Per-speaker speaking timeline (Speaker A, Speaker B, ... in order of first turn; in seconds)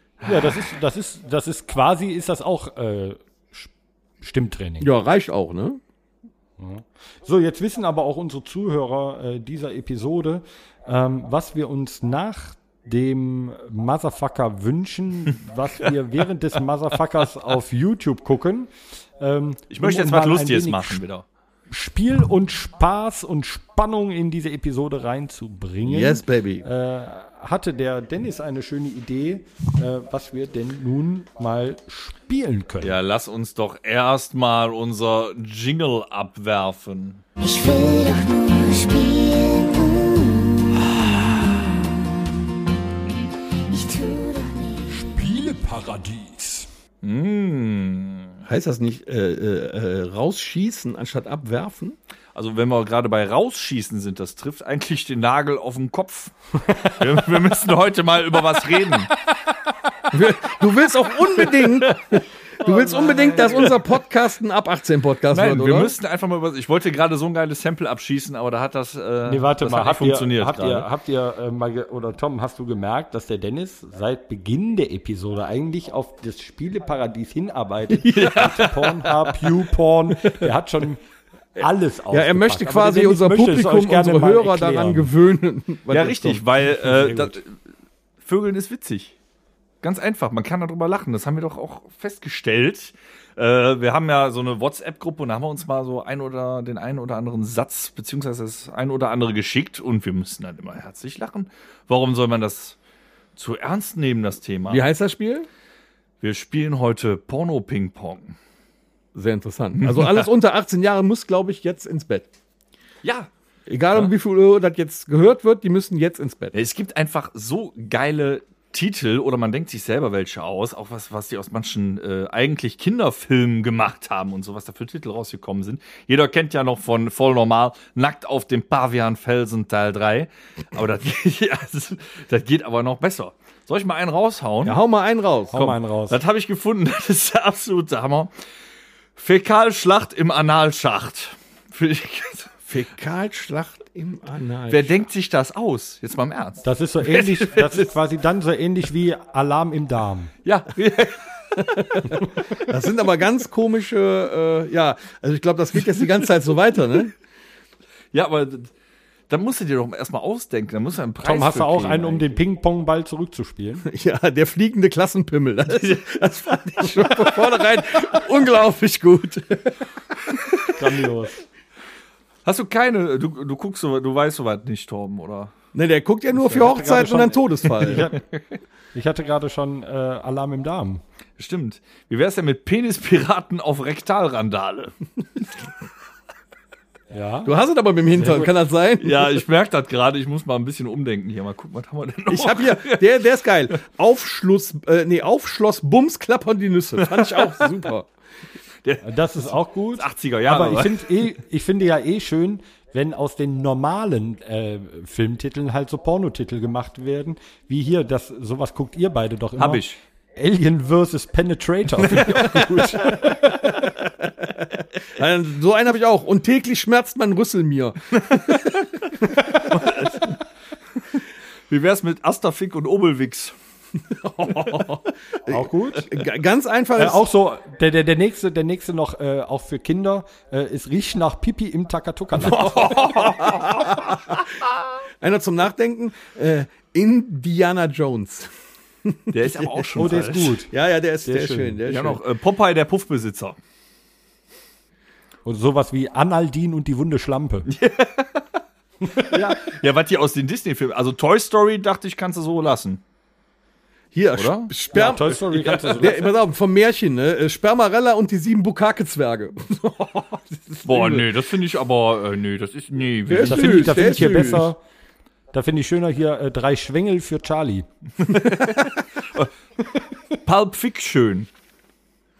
Speaker A: 0.2-0.7, 19.7-21.2, 32.8-37.2, 47.0-48.4, 52.4-59.1, 61.7-63.8, 65.3-70.9, 78.0-79.5, 85.9-87.6, 88.2-89.2, 89.8-102.8, 103.4-104.8, 106.2-108.4, 109.8-110.2, 113.0-113.3, 116.5-134.8, 135.5-138.3, 139.2-142.7, 144.7-147.9, 150.4-152.2, 158.1-158.7, 159.3-162.4, 165.8-167.3, 172.4-175.5, 181.4-184.9, 189.0-193.2, 197.1-197.7, 198.8-201.1, 209.6-210.0, 219.7-220.3, 221.7-223.5, 232.4-234.4, 239.3-240.6, 241.9-243.6, 247.7-248.4, 249.2-253.0, 254.4-254.7, 255.5-256.1, 260.9-264.3, 268.7-269.5, 270.4-271.5
Speaker B: 0.2-3.7, 4.2-4.9, 6.6-21.0, 21.7-32.9, 44.9-46.7, 69.3-81.0, 81.6-85.1, 86.8-87.4, 135.5-136.2, 146.6-150.3, 161.2-163.9, 170.8-171.4, 176.3-178.2, 178.9-181.0, 187.1-187.5, 188.2-188.5, 199.0-209.8, 210.4-213.4, 225.5-226.1, 227.0-233.1, 240.0-240.7, 241.2-241.8, 245.5-247.7, 254.9-256.3, 263.4-264.8, 265.5-267.9
Speaker C: 4.8-5.8, 25.8-26.7, 48.5-52.0, 60.1-65.9, 82.1-86.4, 104.7-105.5, 109.1-112.3, 113.7-116.5, 134.6-135.6, 142.7-144.9, 152.7-157.1, 163.8-169.8, 175.7-178.1, 187.4-189.4, 192.3-198.1, 212.8-218.9, 224.1-227.2, 233.2-234.2, 235.2-238.5, 239.1-240.2, 240.7-242.2, 254.1-261.3, 263.3-264.7
Speaker D: 37.4-40.9, 43.7-45.1